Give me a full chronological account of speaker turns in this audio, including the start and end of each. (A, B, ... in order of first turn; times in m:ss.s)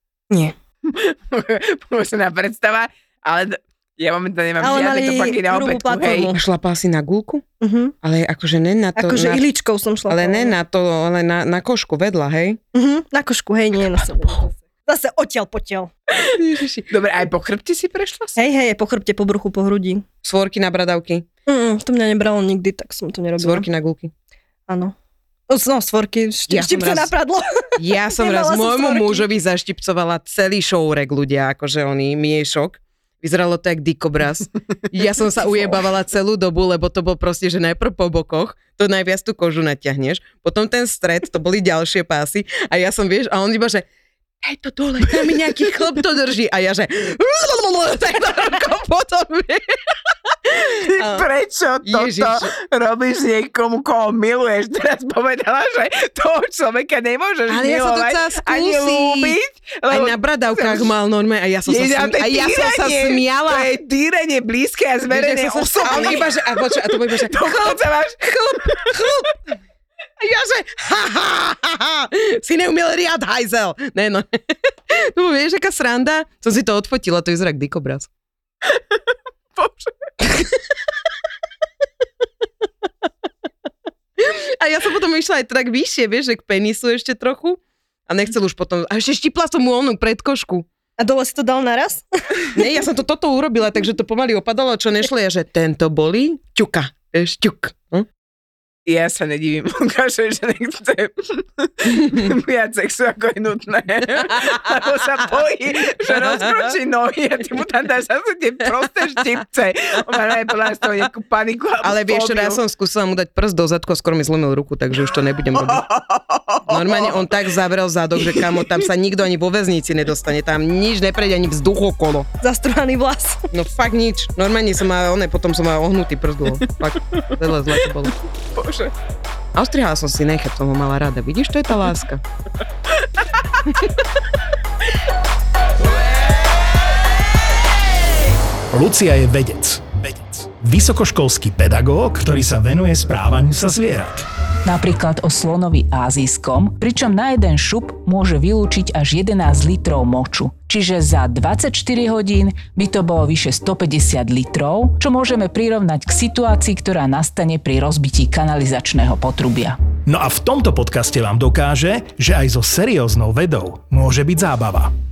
0:00.8-0:06.3 A
0:04.6-0:06.4 B
0:06.2-0:07.4 C
0:07.6-0:07.9 B
0:08.0-0:09.4 C
0:09.0-0:10.6 B
0:10.1-0:12.6 C
0:12.7-0:15.9 B
0:16.3-0:16.9 C
0:16.9-0:18.4 A
0:18.4-0:20.0 B
0:20.2-0:21.2 C
0:21.5-0:23.7 B
0:23.4-0:24.1 C
0:24.7-0:24.9 B
0:25.5-0:29.3 B
0:26.5-0:27.1 C
0:27.8-0:43.9 C
0:44.4-0:49.8 C
0:50.4-0:51.3 C
0:50.6-1:00.9 A
0:51.8-0:52.5 C
0:57.5-1:03.7 C
1:01.6-1:09.0 A
1:05.1-1:09.4 C
1:10.2-1:18.1 C
1:19.6-1:20.1 A
1:24.2-1:30.7 C
1:31.0-1:32.4 B
1:32.5-1:38.1 C
1:38.8-1:52.6 A
1:46.1-1:46.5 C
1:51.8-1:55.8 C
1:55.5-1:57.3 A
1:56.7-2:02.3 C
1:58.2-1:58.6 A
2:02.4-2:03.5 B
2:03.5-2:08.1 C
2:06.6-2:08.9 A
2:09.5-2:12.2 C
2:18.7-2:24.3 D
2:24.6-2:39.8 E
2:40.0-2:44.9 D